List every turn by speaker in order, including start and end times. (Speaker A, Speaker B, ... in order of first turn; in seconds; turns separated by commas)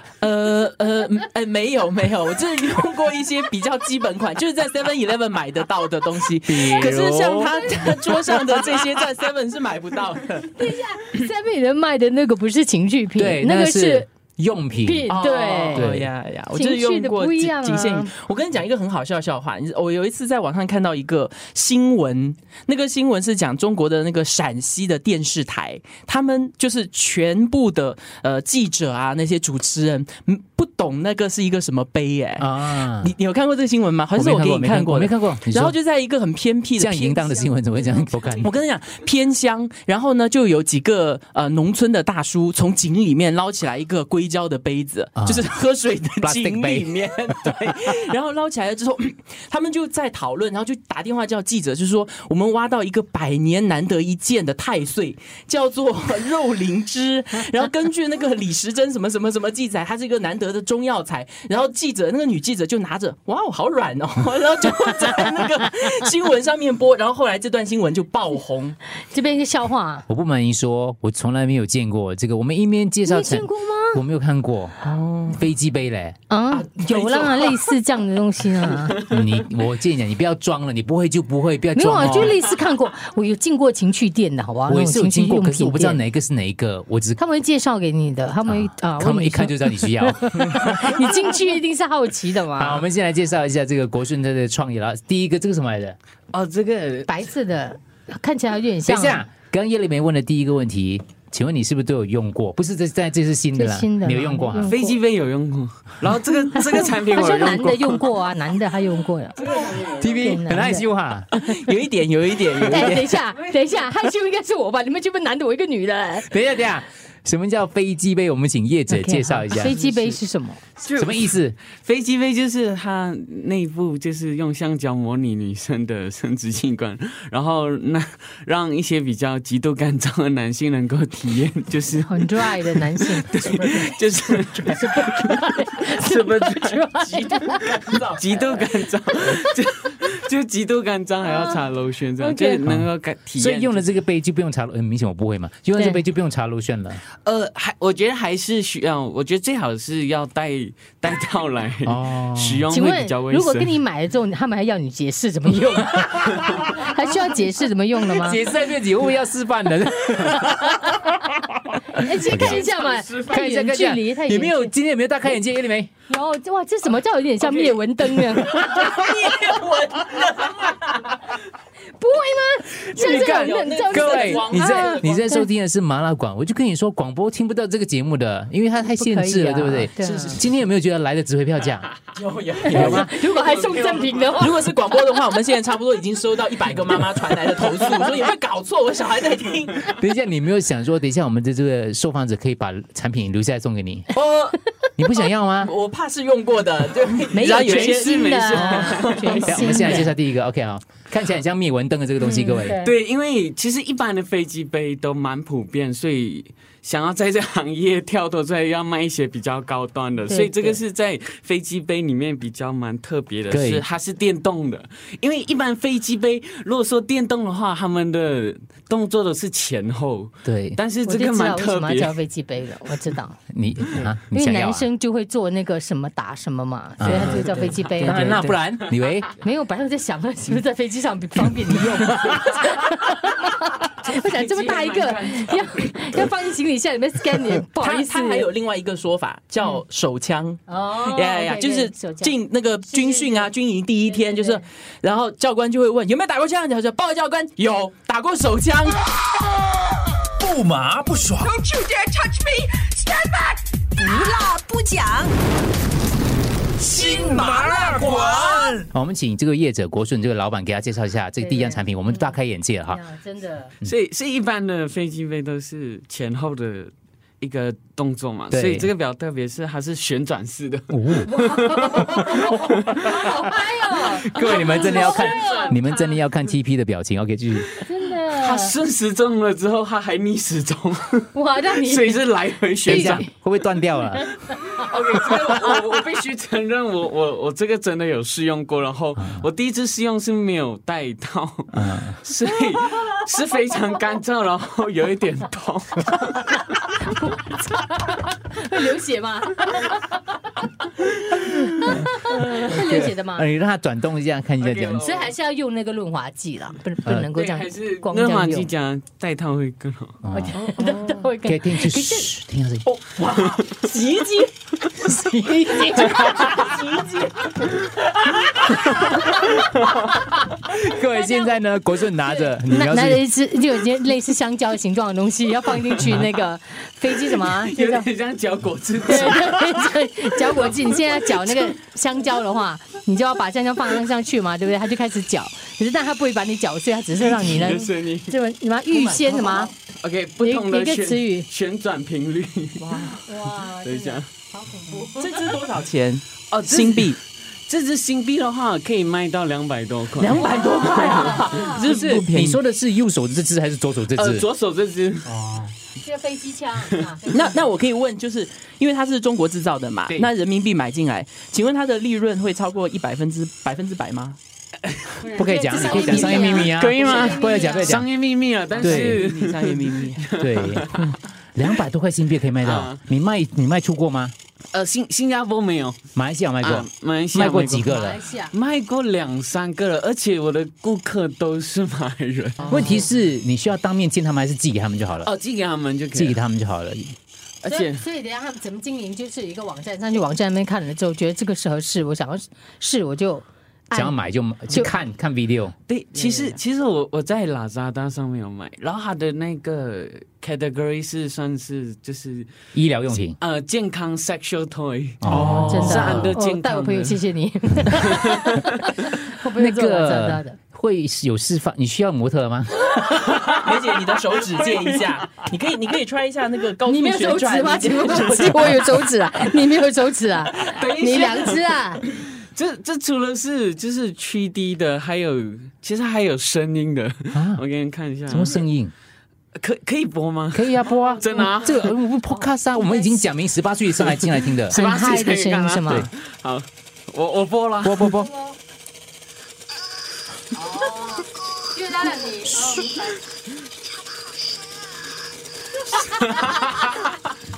Speaker A: 0.2-10.6, Speaker B: 6.5-8.3, Speaker C: 10.5-14.1, Speaker B: 13.2-15.1, Speaker C: 14.8-15.9, Speaker A: 15.1-37.3, Speaker B: 15.7-16.1, Speaker C: 16.5-18.1, Speaker B: 32.4-33.1, Speaker B: 34.1-35.8, Speaker B: 36.8-38.5, Speaker C: 37.4-38.5, Speaker A: 38.4-68.8, Speaker B: 45.2-45.5, Speaker B: 46.2-46.9, Speaker C: 69.0-70.1, Speaker B: 70.1-76.2, Speaker C: 73.0-74.0, Speaker C: 74.8-75.4, Speaker C: 76.3-79.0, Speaker A: 76.6-77.5, Speaker B: 79.1-82.4, Speaker C: 81.8-86.0, Speaker B: 84.7-87.2, Speaker C: 87.2-92.8, Speaker B: 88.5-90.9, Speaker B: 92.5-96.0, Speaker D: 96.3-97.1, Speaker C: 97.1-99.2, Speaker B: 98.9-104.8, Speaker C: 103.5-105.0, Speaker D: 104.6-108.0, Speaker C: 106.6-110.9, Speaker D: 109.4-110.1, Speaker B: 109.9-111.3, Speaker A: 111.3-113.2, Speaker C: 112.7-116.3, Speaker B: 116.2-119.8, Speaker C: 118.9-120.6, Speaker D: 120.8-137.0, Speaker B: 121.0-121.6, Speaker C: 132.1-133.4, Speaker C: 134.7-137.6, Speaker A: 137.0-138.7, Speaker D: 138.2-143.9, Speaker C: 141.2-141.6, Speaker C: 142.2-142.6, Speaker B: 142.7-147.0, Speaker C: 145.8-146.0, Speaker D: 147.2-153.7, Speaker B: 151.8-152.7, Speaker C: 152.7-158.4, Speaker B: 156.0-156.8, Speaker B: 158.0-162.7, Speaker C: 161.9-164.7, Speaker D: 162.3-163.4, Speaker B: 163.2-165.9, Speaker C: 166.1-168.9, Speaker D: 167.4-167.7, Speaker D: 168.3-169.6, Speaker A: 168.5-171.2, Speaker C: 171.9-175.5, Speaker D: 172.9-174.1, Speaker A: 173.0-175.0, Speaker B: 173.0-181.9, Speaker C: 179.0-180.4, Speaker D: 182.1-184.4, Speaker B: 182.7-183.1, Speaker A: 182.7-183.1, Speaker C: 182.7-184.7, Speaker A: 184.4-189.9, Speaker B: 189.9-194.1, Speaker A: 194.1-194.6, Speaker B: 195.0-195.7, Speaker A: 195.6-198.2, Speaker C: 197.3-200.2, Speaker D: 197.3-200.0, Speaker B: 199.5-202.8, Speaker C: 202.2-202.9, Speaker D: 202.8-222.2, Speaker C: 210.3-210.8, Speaker B: 213.5-213.8, Speaker B: 220.4-220.8, Speaker C: 221.1-223.4, Speaker B: 223.5-224.9, Speaker C: 224.3-228.5, Speaker B: 227.0-227.5, Speaker D: 227.0-228.4, Speaker B: 228.0-229.3, Speaker C: 229.4-238.5, Speaker D: 234.1-236.2, Speaker A: 237.7-249.0, Speaker C: 240.7-243.5, Speaker C: 244.1-244.7, Speaker E: 250.4-252.0, Speaker F: 251.9-253.6, Speaker A: 254.0-255.3, Speaker F: 254.2-254.8, Speaker E: 256.8-258.8, Speaker B: 258.9-263.0, Speaker C: 261.4-263.8, Speaker D: 263.8-273.3, Speaker B: 268.5-268.9, Speaker B: 270.9-271.3, Speaker C: 271.3-275.8, Speaker B: 274.2-277.7, Speaker D: 274.3-276.0, Speaker C: 277.8-278.8, Speaker D: 278.3-283.2, Speaker C: 281.3-282.2, Speaker C: 282.9-283.3, Speaker B: 282.9-284.3, Speaker C: 284.1-284.6, Speaker D: 284.5-296.6, Speaker B: 289.2-289.5, Speaker B: 291.7-292.2, Speaker C: 297.0-300.4, Speaker B: 301.5-305.0, Speaker C: 301.8-303.5, Speaker D: 304.6-305.3, Speaker C: 304.9-308.7, Speaker B: 307.0-307.3, Speaker D: 307.3-310.2, Speaker B: 310.2-310.6, Speaker C: 310.3-312.3, Speaker A: 310.6-311.1, Speaker B: 311.4-312.9, Speaker A: 312.9-314.4, Speaker C: 314.2-316.6, Speaker A: 316.0-317.5, Speaker C: 319.0-319.3, Speaker B: 320.6-323.3, Speaker C: 321.0-328.1, Speaker D: 327.2-331.7, Speaker C: 329.1-339.7, Speaker D: 337.2-338.4, Speaker B: 338.9-339.5, Speaker D: 340.0-344.3, Speaker C: 340.4-341.5, Speaker A: 342.8-343.2, Speaker C: 343.2-345.6, Speaker A: 345.2-347.2, Speaker D: 346.5-352.1, Speaker A: 350.2-352.6, Speaker C: 350.4-352.0, Speaker B: 351.9-354.5, Speaker D: 354.2-355.3, Speaker B: 355.3-355.7, Speaker C: 356.0-357.6, Speaker A: 357.3-364.4, Speaker D: 365.0-365.2, Speaker C: 365.2-367.9, Speaker B: 365.4-368.1, Speaker D: 365.8-371.1, Speaker A: 368.8-370.4, Speaker B: 368.8-369.3, Speaker B: 370.4-374.4, Speaker D: 372.6-373.0, Speaker D: 374.7-376.0, Speaker B: 376.1-378.2, Speaker D: 376.6-378.0, Speaker C: 377.9-378.6, Speaker D: 378.5-382.9, Speaker A: 382.6-382.9, Speaker B: 382.7-385.3, Speaker D: 385.2-386.4, Speaker B: 386.1-387.1, Speaker D: 387.6-388.0, Speaker C: 387.7-394.2, Speaker B: 393.9-395.7, Speaker D: 395.9-402.5, Speaker B: 402.7-403.4, Speaker D: 403.1-407.2, Speaker B: 405.2-406.4, Speaker C: 405.3-410.6, Speaker D: 407.9-408.6, Speaker B: 409.5-412.9, Speaker D: 413.2-414.0, Speaker A: 413.4-418.9, Speaker D: 414.6-415.0, Speaker C: 416.9-422.0, Speaker D: 418.4-418.8, Speaker D: 420.6-428.6, Speaker B: 427.3-427.6, Speaker B: 428.3-428.9, Speaker D: 429.6-431.9, Speaker B: 430.5-434.8, Speaker C: 431.2-433.2, Speaker D: 434.2-438.3, Speaker C: 434.7-436.1, Speaker B: 437.8-438.3, Speaker C: 440.6-443.1, Speaker D: 446.0-447.1